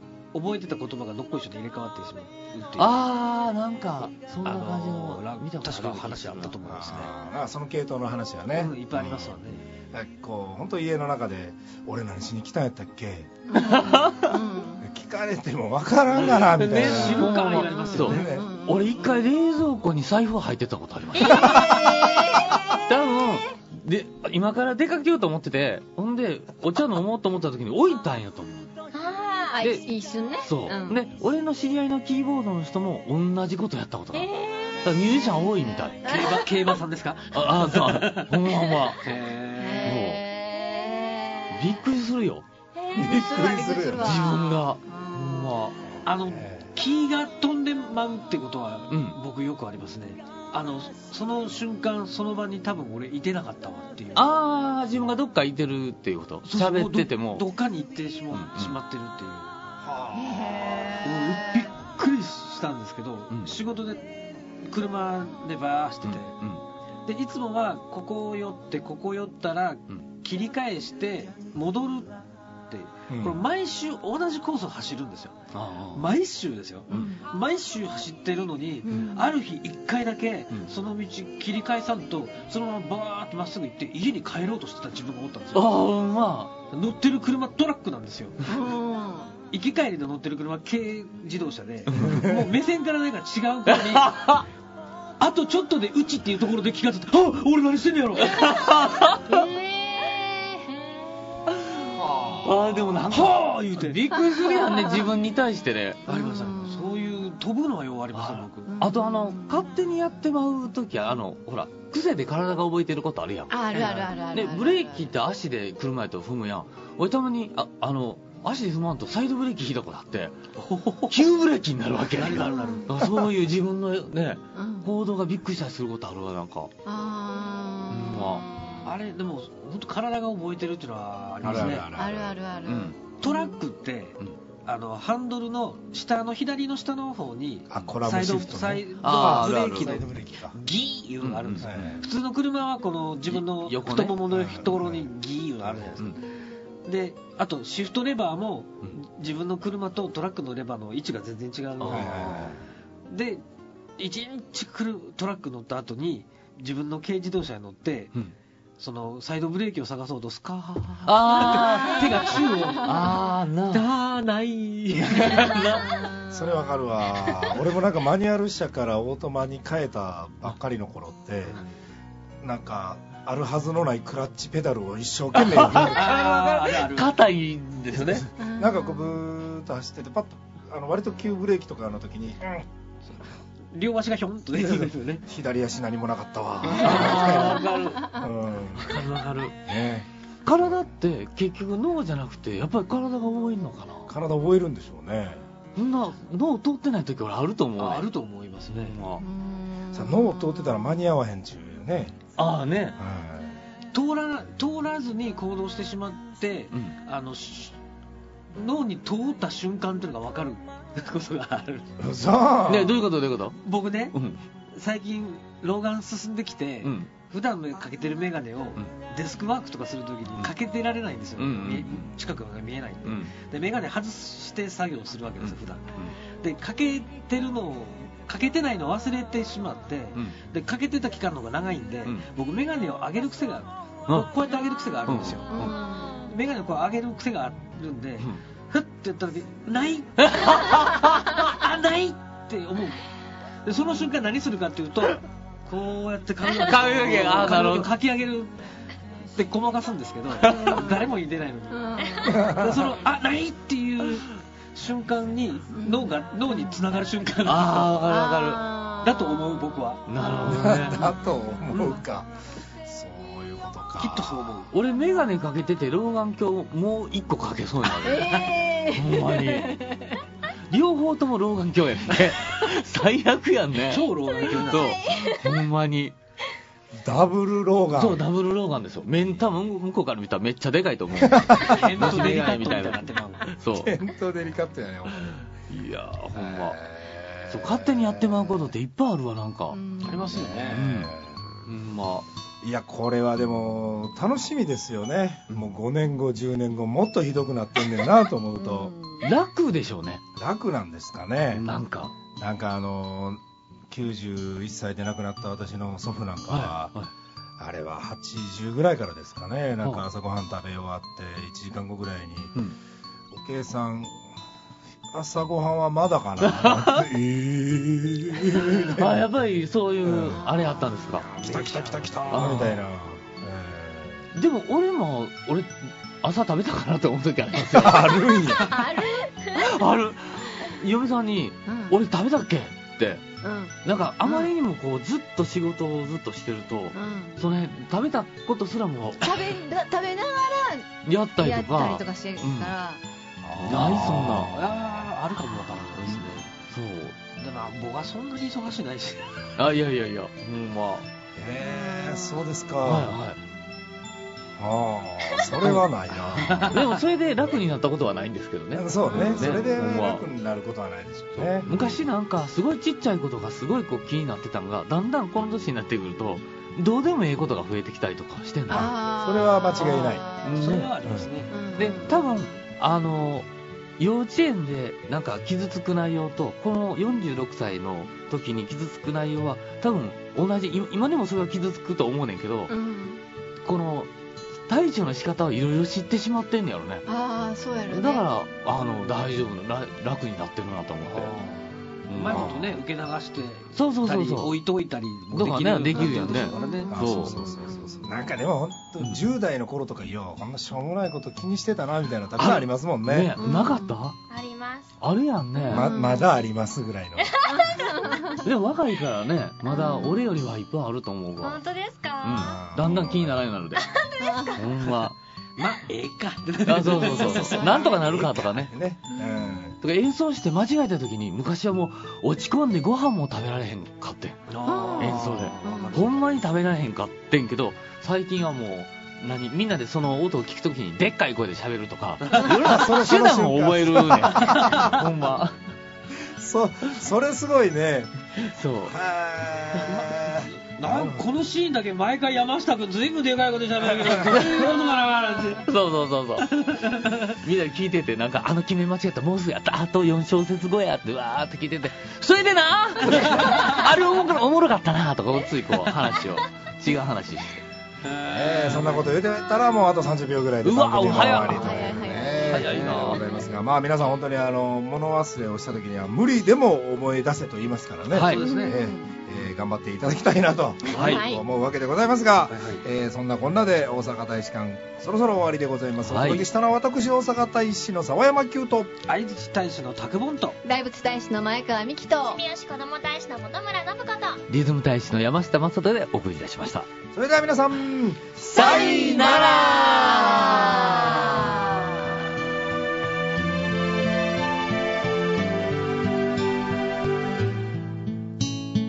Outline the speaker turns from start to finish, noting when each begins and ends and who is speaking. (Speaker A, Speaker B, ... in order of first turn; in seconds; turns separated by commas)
Speaker A: 0.3-3.0, Speaker B: 2.8-6.6, Speaker A: 4.4-7.1, Speaker C: 6.6-13.3, Speaker A: 8.5-9.6, Speaker D: 13.5-14.8, Speaker B: 13.5-14.4, Speaker C: 14.8-17.4, Speaker B: 16.3-21.8, Speaker A: 16.7-18.3, Speaker D: 17.5-19.0, Speaker C: 18.0-18.5, Speaker D: 21.2-22.9, Speaker E: 21.3-21.9, Speaker B: 22.8-28.7, Speaker E: 28.9-29.6, Speaker D: 29.5-31.0, Speaker B: 30.4-34.3, Speaker E: 34.1-34.9, Speaker B: 34.8-36.2, Speaker D: 36.0-36.5, Speaker A: 36.0-40.1, Speaker B: 37.3-39.1, Speaker D: 39.6-41.6, Speaker B: 39.8-40.2, Speaker B: 41.5-42.5, Speaker E: 42.8-43.2, Speaker D: 42.9-45.7, Speaker C: 42.9-44.2, Speaker B: 43.5-45.8, Speaker C: 46.0-46.7, Speaker A: 46.0-54.4, Speaker B: 48.9-49.2, Speaker B: 54.1-57.5, Speaker A: 56.5-59.5, Speaker B: 58.3-58.8, Speaker C: 59.8-60.8, Speaker D: 60.1-61.7, Speaker A: 61.0-64.1, Speaker A: 64.6-66.4, Speaker B: 66.0-66.6, Speaker A: 67.1-72.2, Speaker A: 72.7-75.4, Speaker C: 73.1-73.4, Speaker B: 75.5-76.1, Speaker A: 75.9-85.8, Speaker D: 76.9-77.2, Speaker D: 78.8-79.3, Speaker B: 85.5-86.5, Speaker A: 86.7-88.5, Speaker D: 88.5-89.3, Speaker A: 89.5-94.4, Speaker B: 91.9-92.2, Speaker C: 92.0-92.4, Speaker B: 93.7-94.5, Speaker A: 95.2-98.5, Speaker B: 98.2-99.5, Speaker E: 99.2-101.0, Speaker B: 101.6-106.0, Speaker A: 103.1-104.0, Speaker D: 104.3-105.1, Speaker A: 106.1-108.7, Speaker D: 106.1-107.0, Speaker B: 108.1-120.4, Speaker D: 108.7-109.6, Speaker D: 113.5-115.1, Speaker A: 113.7-114.1, Speaker A: 120.6-121.2, Speaker B: 121.1-126.7, Speaker A: 122.2-123.3, Speaker D: 122.3-122.9, Speaker D: 124.5-124.9, Speaker D: 126.9-128.9, Speaker B: 127.9-128.4, Speaker A: 128.8-131.9, Speaker B: 131.4-131.8, Speaker C: 131.4-132.4, Speaker D: 131.9-133.6, Speaker B: 132.7-133.0, Speaker A: 133.2-146.2, Speaker C: 137.7-140.6, Speaker B: 139.0-140.0, Speaker B: 141.2-141.9, Speaker C: 141.6-142.1, Speaker B: 143.3-144.2, Speaker C: 144.3-145.1, Speaker C: 145.6-145.9, Speaker A: 146.8-153.4, Speaker B: 151.8-152.4, Speaker C: 151.9-152.6, Speaker A: 154.0-158.1, Speaker A: 158.8-163.2, Speaker B: 161.1-163.9, Speaker D: 161.7-162.8, Speaker A: 163.7-165.8, Speaker B: 165.0-166.0, Speaker D: 165.6-166.6, Speaker C: 166.3-171.6, Speaker C: 172.4-176.2, Speaker B: 175.3-178.3, Speaker A: 175.8-177.2, Speaker A: 177.9-178.2, Speaker D: 178.4-179.2, Speaker C: 178.6-182.7, Speaker A: 183.7-185.2, Speaker C: 184.5-189.1, Speaker A: 186.7-188.2, Speaker B: 186.8-187.7, Speaker A: 188.8-189.5, Speaker C: 189.7-190.1, Speaker B: 190.4-194.1, Speaker C: 194.1-195.4, Speaker B: 195.8-198.1, Speaker A: 197.8-199.0, Speaker B: 198.8-199.2, Speaker D: 199.2-200.9, Speaker C: 199.9-202.2, Speaker B: 202.4-203.0, Speaker C: 203.0-203.6, Speaker A: 203.9-207.8, Speaker A: 208.5-211.9, Speaker C: 212.0-213.1, Speaker B: 212.7-213.6, Speaker A: 213.7-214.2, Speaker B: 214.1-214.4, Speaker A: 214.7-235.7, Speaker B: 216.8-217.1, Speaker B: 221.4-222.1, Speaker B: 223.0-223.3, Speaker B: 225.4-226.1, Speaker B: 235.1-235.7, Speaker D: 235.5-236.2, Speaker E: 235.6-236.3, Speaker A: 236.2-243.0, Speaker B: 240.2-241.4, Speaker A: 243.7-248.6, Speaker B: 246.4-247.9, Speaker A: 249.3-258.0, Speaker B: 250.3-251.0, Speaker D: 250.4-251.1, Speaker D: 251.7-252.6, Speaker C: 252.3-252.8, Speaker D: 255.7-256.1, Speaker B: 257.4-258.7, Speaker D: 258.1-259.6, Speaker A: 259.0-260.1, Speaker B: 260.1-261.1, Speaker D: 260.2-261.6, Speaker C: 260.4-262.3, Speaker A: 261.7-262.0, Speaker C: 262.8-264.5, Speaker A: 264.0-264.7, Speaker B: 264.7-269.9, Speaker D: 268.0-270.2, Speaker B: 270.7-276.1, Speaker A: 273.9-275.0, Speaker D: 274.7-275.4, Speaker C: 277.0-278.2, Speaker B: 277.9-284.0, Speaker C: 281.2-281.9, Speaker A: 281.6-283.5, Speaker C: 283.7-285.4, Speaker B: 285.2-286.8, Speaker C: 286.3-288.8, Speaker B: 287.5-289.8, Speaker D: 289.7-290.6, Speaker A: 290.0-290.8, Speaker C: 290.4-291.4, Speaker B: 290.4-291.1, Speaker B: 291.7-292.3, Speaker C: 292.6-298.9, Speaker D: 298.6-299.3, Speaker B: 299.2-300.2, Speaker C: 300.4-301.7, Speaker B: 301.5-302.1, Speaker C: 302.4-306.9, Speaker B: 306.5-307.1, Speaker C: 307.6-312.6, Speaker C: 313.3-314.2, Speaker C: 315.1-319.2, Speaker B: 316.4-317.1, Speaker B: 318.5-321.3, Speaker C: 320.0-320.4, Speaker C: 321.0-324.3, Speaker A: 321.4-322.6, Speaker B: 322.3-322.8, Speaker B: 324.3-328.6, Speaker C: 327.7-328.8, Speaker D: 328.5-329.4, Speaker B: 329.5-333.2, Speaker D: 331.7-332.0, Speaker D: 333.4-334.5, Speaker B: 333.8-339.4, Speaker D: 336.9-337.4, Speaker D: 339.2-343.0, Speaker B: 341.1-342.7, Speaker C: 343.4-344.4, Speaker B: 343.6-344.7, Speaker A: 343.7-346.5, Speaker B: 346.0-347.2, Speaker A: 347.4-349.5, Speaker B: 349.6-351.1, Speaker C: 351.4-353.2, Speaker B: 352.8-353.4, Speaker C: 354.6-356.8, Speaker B: 355.6-355.9, Speaker A: 356.4-357.0, Speaker B: 356.6-360.2, Speaker C: 358.7-362.0, Speaker D: 359.1-359.6, Speaker B: 361.4-368.9, Speaker C: 368.7-370.3, Speaker D: 368.7-370.8, Speaker B: 370.4-371.0, Speaker A: 370.6-371.6, Speaker C: 371.0-371.3, Speaker D: 371.5-372.6, Speaker B: 371.8-373.5, Speaker B: 374.0-382.7, Speaker D: 382.7-383.2, Speaker B: 383.6-384.1, Speaker B: 384.7-387.1, Speaker D: 387.1-388.3, Speaker B: 387.9-391.4, Speaker A: 391.1-396.9, Speaker B: 392.1-392.6, Speaker C: 392.2-392.8, Speaker B: 393.7-394.6, Speaker B: 395.3-397.4, Speaker D: 396.0-398.1, Speaker E: 396.6-396.9, Speaker C: 396.9-403.4, Speaker B: 402.4-404.2, Speaker D: 403.4-404.0, Speaker E: 404.3-405.0, Speaker B: 405.0-405.9, Speaker D: 405.7-406.3, Speaker C: 405.7-407.8, Speaker E: 407.2-408.0, Speaker D: 407.5-408.5, Speaker B: 408.4-411.6, Speaker D: 409.7-410.2, Speaker E: 411.4-412.6, Speaker B: 412.2-413.9, Speaker C: 412.3-413.5, Speaker E: 413.8-414.6, Speaker D: 414.2-414.6, Speaker B: 414.5-415.2, Speaker A: 414.8-418.0, Speaker B: 416.7-418.7, Speaker C: 417.2-419.8, Speaker D: 417.6-417.9, Speaker B: 419.8-424.4, Speaker A: 424.5-426.4, Speaker D: 424.6-426.0, Speaker B: 425.0-435.6, Speaker A: 432.2-432.5, Speaker C: 432.5-435.1, Speaker A: 434.5-434.9, Speaker C: 436.1-438.1, Speaker B: 438.4-438.9, Speaker C: 438.9-441.3, Speaker A: 439.9-445.7, Speaker B: 444.3-444.7, Speaker B: 445.6-446.7, Speaker A: 446.4-447.4, Speaker B: 447.3-457.6, Speaker C: 453.1-453.5, Speaker A: 458.0-459.1, Speaker C: 458.3-478.9, Speaker B: 460.6-463.2, Speaker D: 461.4-462.7, Speaker A: 462.8-463.1, Speaker B: 468.1-468.5, Speaker D: 468.3-469.1, Speaker A: 468.4-468.8, Speaker D: 470.9-471.5, Speaker B: 470.9-471.2, Speaker A: 470.9-471.2, Speaker A: 472.5-472.8, Speaker B: 476.0-476.4, Speaker A: 479.1-480.6, Speaker D: 480.6-482.4, Speaker E: 482.2-484.4, Speaker B: 484.5-486.9, Speaker C: 487.1-490.6, Speaker D: 488.5-491.9, Speaker B: 488.6-490.8